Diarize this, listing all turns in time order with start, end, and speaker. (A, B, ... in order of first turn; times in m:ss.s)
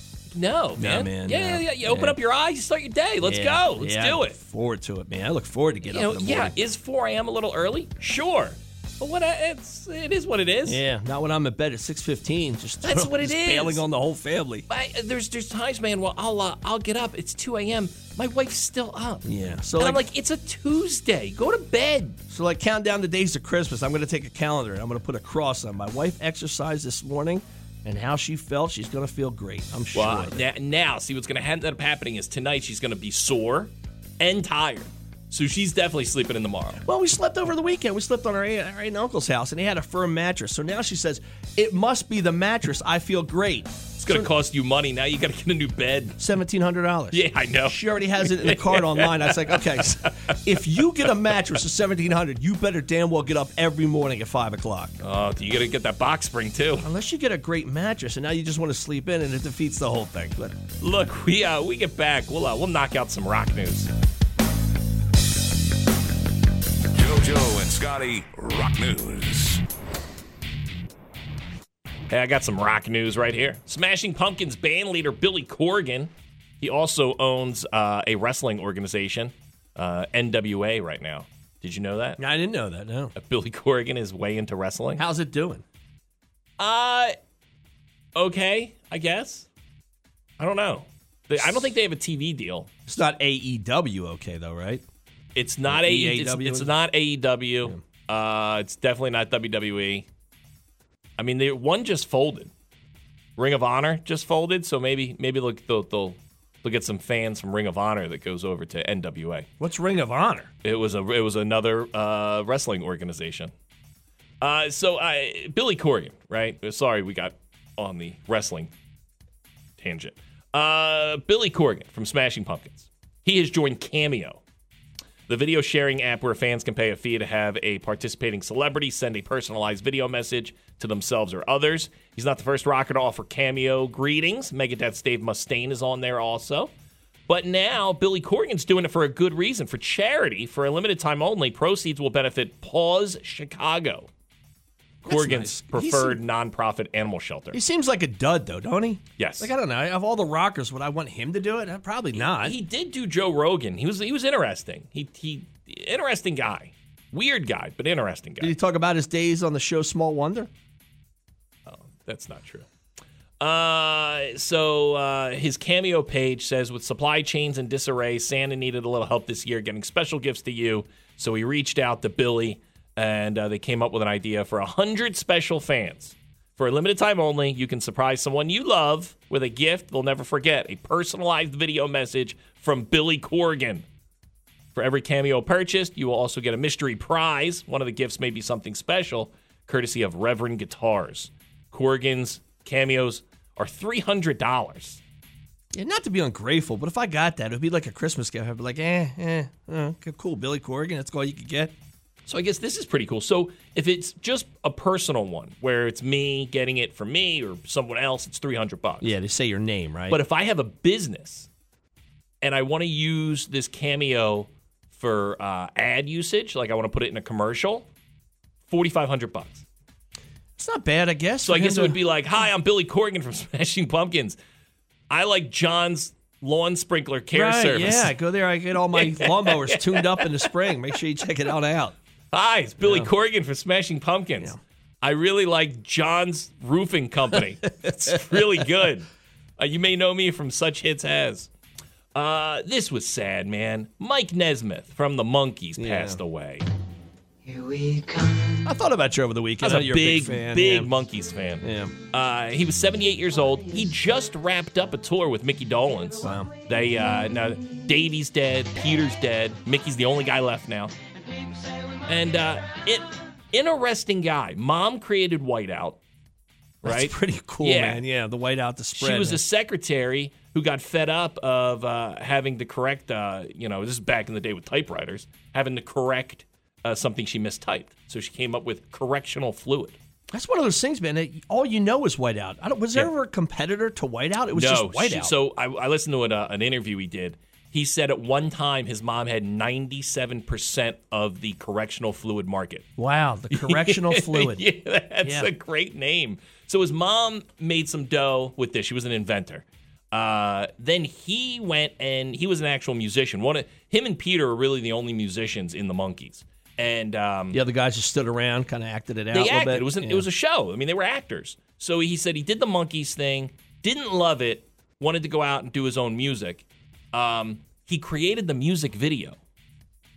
0:00.3-0:04.4 A
0:00.8-0:02.2 B
0:03.2-0:06.6 B
0:05.9-0:10.8 A
0:10.6-0:14.6 B
0:12.8-0:13.8 A
0:14.7-0:22.2 A
0:19.2-0:20.0 B
0:22.3-0:30.4 B
0:29.9-0:36.8 A
0:36.8-0:44.3 B
0:44.0-0:46.2 A
0:46.2-0:55.0 B
0:47.1-0:51.1 A
0:55.0-0:56.9 A
0:56.8-1:00.6 B
1:00.8-1:03.9 A
1:06.9-1:09.6 C
1:12.1-1:22.2 A
1:22.2-1:23.1 B
1:23.1-1:25.0 A
1:25.0-1:25.6 B
1:26.6-1:27.1 A
1:28.2-1:29.5 A
1:30.4-1:32.7 A
1:32.9-1:34.8 B
1:35.3-1:40.0 A
1:35.7-1:36.7 B
1:41.2-1:42.5 A
1:43.4-1:49.5 A
1:49.6-1:50.5 B
1:50.6-1:53.5 A
1:54.4-1:58.7 A
1:59.8-2:04.4 A
2:05.3-2:16.7 A
2:17.3-2:24.1 A
2:25.0-2:26.2 B
2:25.0-2:27.6 A
2:27.5-2:32.6 B
2:29.2-2:29.5 A
2:32.2-2:38.5 A
2:38.4-2:40.5 B
2:41.7-2:42.7 A
2:43.4-3:03.8 A
3:04.7-3:15.0 A
3:15.7-3:21.7 B
3:22.2-3:29.1 A
3:29.0-3:30.2 B
3:30.1-3:31.5 A
3:32.4-3:37.9 A
3:38.7-3:39.6 A
3:40.6-3:42.0 B
3:41.4-3:44.4 A
3:45.1-3:48.1 A
3:47.3-3:52.0 B
3:48.9-3:50.7 A
3:52.3-4:01.5 A
3:52.8-3:53.1 B
3:57.8-3:58.4 B
4:02.1-4:06.7 A
4:05.8-4:06.2 B
4:08.6-4:10.9 B
4:09.6-4:20.9 A
4:11.6-4:11.9 B
4:16.2-4:16.5 B
4:22.1-4:26.0 A
4:26.8-4:28.0 A
4:26.8-4:29.4 B
4:28.9-4:40.0 A
4:40.3-4:45.3 B
4:44.5-4:52.8 A
4:53.0-4:54.6 B
4:53.5-5:07.6 A
4:55.2-4:55.5 B
5:07.5-5:10.2 B
5:09.3-5:19.4 A